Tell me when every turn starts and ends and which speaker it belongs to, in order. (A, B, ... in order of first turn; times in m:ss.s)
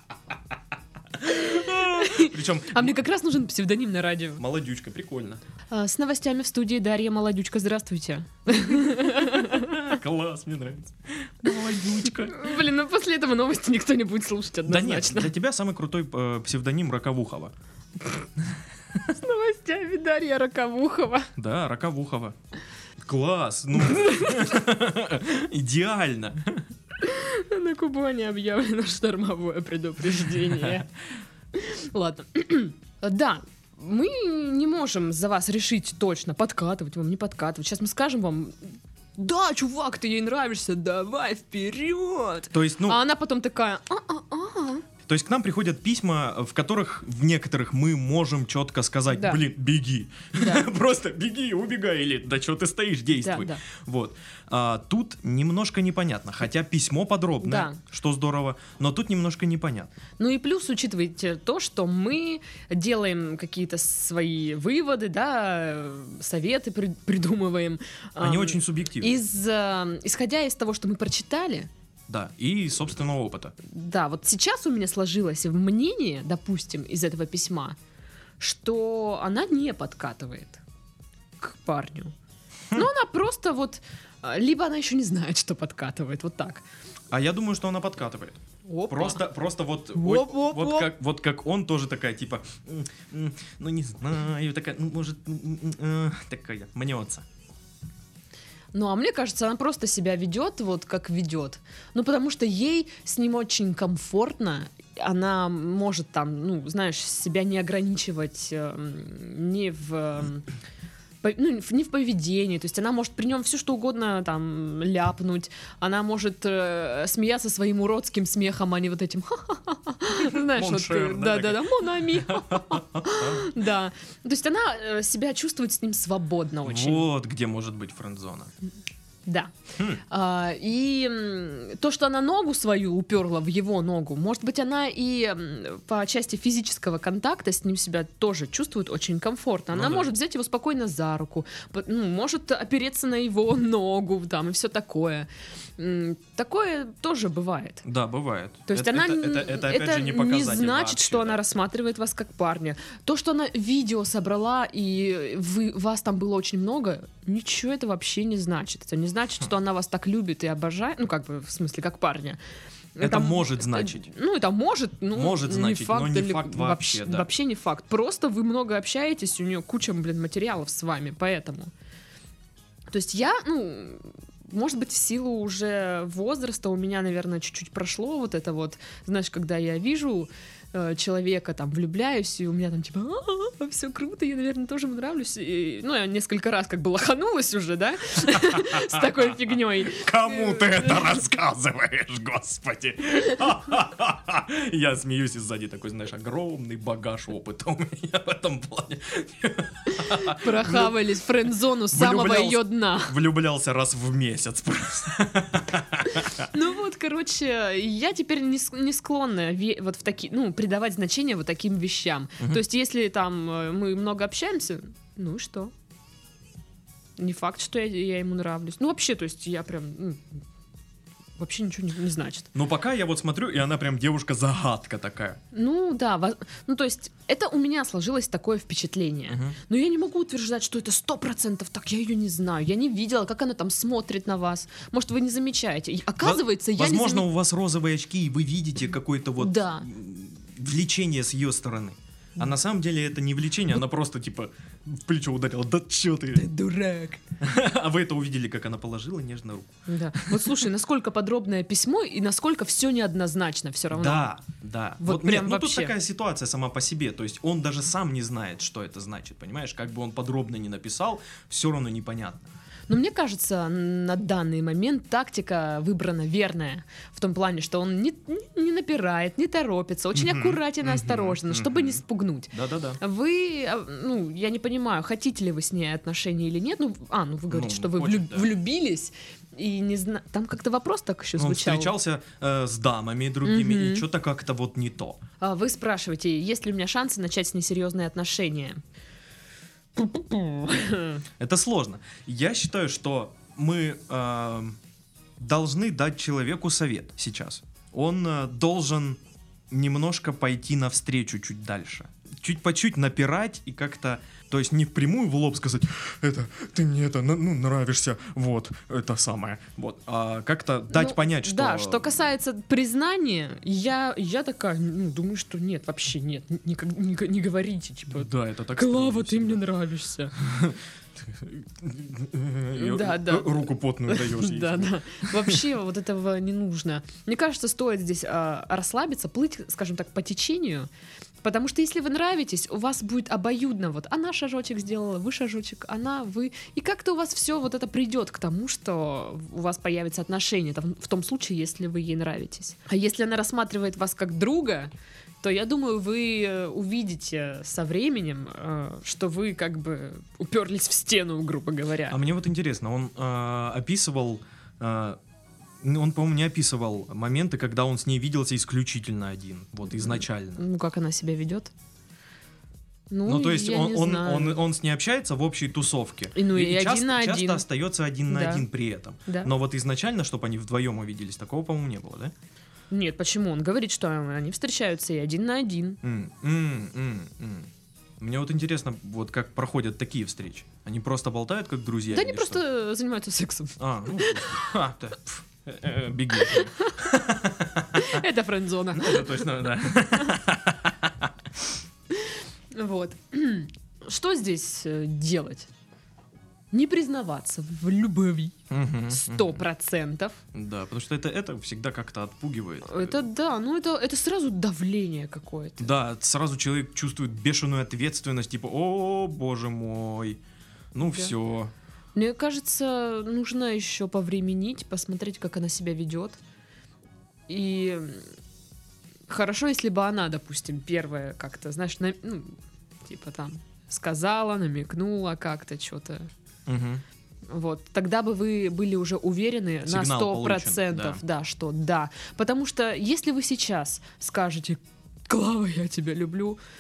0:01.2-0:03.0 A
0:01.3-0:04.4 B
0:04.4-0:05.4 A
0:05.7-0:10.0 B
0:09.2-0:12.6 A
0:12.2-0:15.3 B
0:14.7-0:17.5 A
0:19.1-0:21.3 B
0:21.4-0:22.4 A
0:23.0-0:26.7 A
0:23.9-0:24.5 B
0:27.0-0:30.9 B
0:31.5-0:44.9 B
0:42.5-0:43.0 A
0:45.1-0:59.9 A
0:49.1-0:49.4 B
0:50.4-0:50.7 B
0:53.2-0:53.6 B
0:57.4-0:57.8 B
1:00.2-1:11.7 B
1:08.2-1:09.2 A
1:12.1-1:13.5 A
1:13.6-1:17.8 B
1:18.4-1:20.6 B
1:21.4-1:22.1 B
1:22.7-1:26.6 B
1:27.1-1:37.3 A
1:28.7-1:29.2 B
1:30.0-1:30.9 B
1:38.7-1:50.5 B
1:51.2-2:07.1 B
2:00.2-2:03.5 A
2:06.6-2:08.5 A
2:09.3-2:09.5 B
2:09.8-2:10.0 A
2:10.1-2:27.8 B
2:19.7-2:20.1 A
2:27.8-2:31.5 A
2:28.7-2:42.4 B
2:43.0-2:51.7 B
2:43.0-2:44.1 A
2:45.1-2:47.3 A
2:52.9-3:11.2 B
3:08.6-3:09.2 A
3:09.8-3:21.1 A
3:20.0-3:23.2 B
3:21.7-3:26.5 A
3:26.1-3:35.7 B
3:37.2-3:40.4 B
3:41.4-3:42.5 B
3:42.5-3:45.4 A
3:45.5-3:57.3 B
3:49.3-3:49.6 A
3:56.2-4:06.5 A
3:59.4-3:59.9 B
4:06.4-4:07.2 B
4:07.4-4:10.5 A
4:09.9-4:14.3 B
4:13.9-4:22.5 A
4:15.0-4:16.0 B
4:22.9-4:42.0 B
4:30.2-4:33.0 A
4:37.5-4:38.5 A
4:41.4-4:45.2 A
4:43.4-4:44.1 B
4:45.4-4:48.8 B
4:50.0-4:51.2 B
4:51.4-4:54.8 A
4:55.4-5:12.2 A
5:10.9-5:20.3 B
5:18.1-5:19.6 A
5:20.4-5:25.6 A
5:22.7-5:30.9 B
5:31.4-5:52.2 B
5:52.1-5:55.2 A
5:55.8-6:00.6 A
5:59.9-6:01.7 B
6:03.1-6:04.6 B
6:03.3-6:12.3 A
6:06.4-6:07.6 B
6:08.3-6:08.7 B
6:09.3-6:09.5 B
6:12.9-6:16.0 B
6:16.0-6:22.6 A
6:22.1-6:24.7 B
6:23.8-6:28.2 A
6:26.4-6:27.2 B
6:27.9-6:29.5 B
6:28.9-6:31.3 A
6:32.1-6:35.7 B
6:36.7-6:38.6 B
6:38.7-6:39.6 A
6:39.1-6:40.4 B
6:40.5-6:43.3 A
6:42.8-6:46.0 B
6:45.8-6:50.4 A
6:50.9-6:51.7 A
6:51.0-6:51.4 B
6:52.2-6:56.4 B
6:57.5-6:58.3 B
6:59.3-7:06.3 B
7:06.7-7:07.0 A
7:07.5-7:16.6 B
7:09.8-7:11.2 A